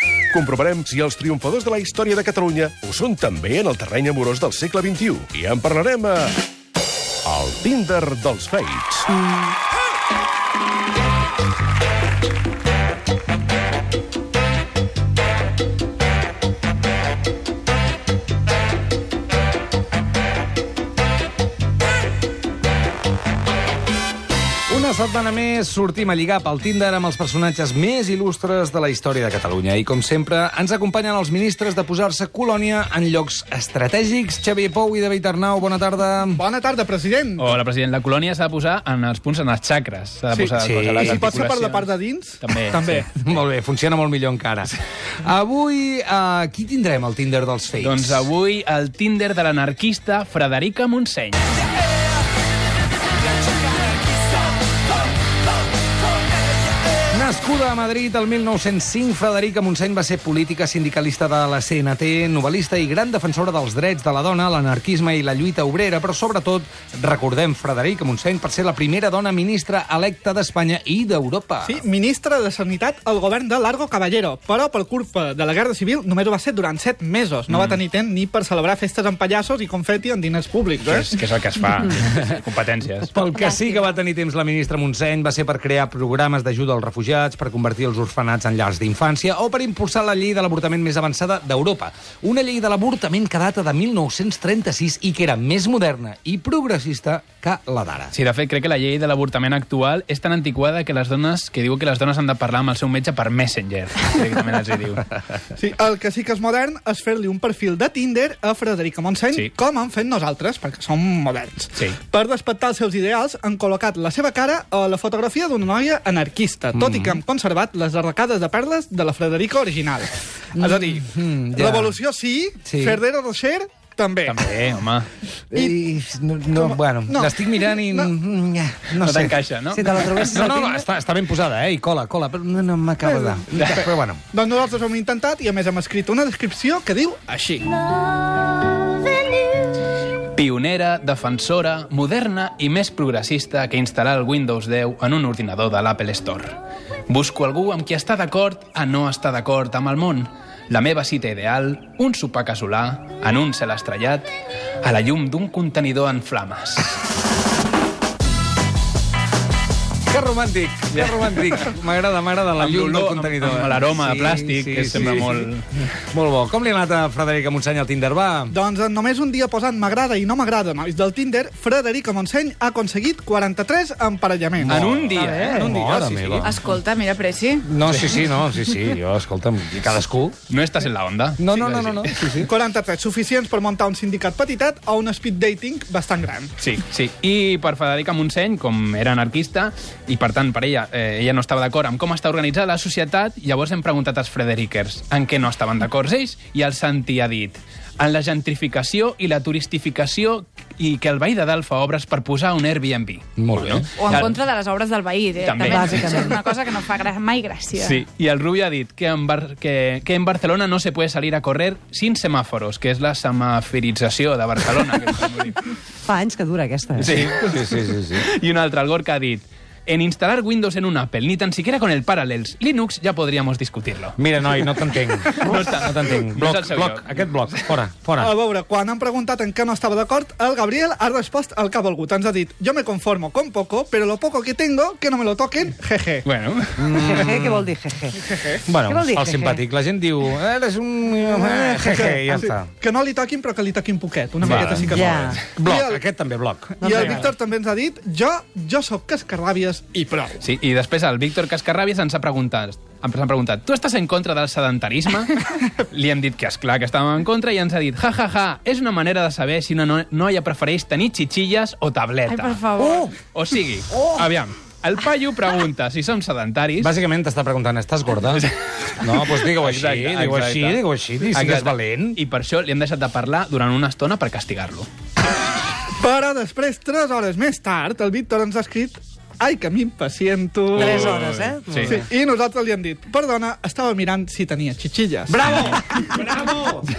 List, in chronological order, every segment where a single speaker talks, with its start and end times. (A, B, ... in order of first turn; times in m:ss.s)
0:00.3-0:06.4 A
0:07.2-0:09.2 A
0:24.7-0:36.4 B
0:36.4-0:37.6 C
0:37.4-0:41.9 D
0:40.3-0:43.1 C
0:40.6-0:41.4 B
0:42.4-0:43.3 D
0:43.2-0:48.2 B
0:47.8-0:51.7 D
0:57.1-1:11.8 B
1:11.6-1:21.2 C
1:17.5-1:17.8 D
1:20.8-1:23.1 D
1:23.1-1:38.1 B
1:38.1-1:45.1 D
1:45.6-2:04.5 C
1:56.7-1:57.2 B
2:01.0-2:02.0 B
2:02.7-2:03.0 B
2:04.2-2:05.1 D
2:05.5-2:09.4 B
2:05.5-2:05.8 C
2:06.5-2:08.1 C
2:09.0-2:10.5 D
2:09.7-2:10.8 E
2:10.2-2:14.2 B
2:13.0-2:17.7 C
2:20.3-2:26.6 D
2:27.1-2:34.3 D
2:34.8-2:37.0 D
2:40.1-2:45.4 B
2:40.9-2:41.6 D
2:42.5-2:45.6 D
2:46.0-2:48.5 B
2:48.5-2:55.0 C
2:54.6-2:56.6 B
2:54.6-2:55.7 D
2:55.0-2:55.8 E
2:55.7-2:56.5 C
2:56.3-2:57.7 F
2:57.6-3:00.4 B
2:57.9-2:58.2 D
3:00.5-3:02.3 D
3:01.4-3:02.5 B
3:01.6-3:06.5 C
3:06.6-3:24.4 D
3:23.4-3:24.2 B
3:24.0-3:28.0 F
3:25.4-3:26.4 D
3:25.6-3:26.5 E
3:27.8-3:35.7 D
3:36.0-3:37.1 E
3:37.0-3:44.6 D
3:37.0-3:38.3 B
3:44.2-3:48.3 B
3:45.2-3:47.7 D
3:48.2-3:56.3 C
3:56.2-3:57.2 D
3:56.8-3:57.7 B
3:56.9-3:58.3 E
3:58.1-3:58.7 C
3:58.7-4:02.7 B
3:58.8-3:59.6 E
4:01.2-4:06.0 C
4:04.4-4:04.8 D
4:04.4-4:07.2 B
4:04.8-4:05.4 E
4:06.8-4:10.4 C
4:06.8-4:07.3 E
4:10.4-4:22.6 D
4:22.2-4:23.1 F
4:23.3-4:26.9 D
4:26.8-4:28.4 B
4:28.2-4:30.8 D
4:29.0-4:32.2 B
4:31.3-4:34.9 D
4:36.0-4:41.2 C
4:40.7-4:42.0 D
4:40.7-4:42.0 E
4:41.8-4:45.4 C
4:45.3-4:46.9 B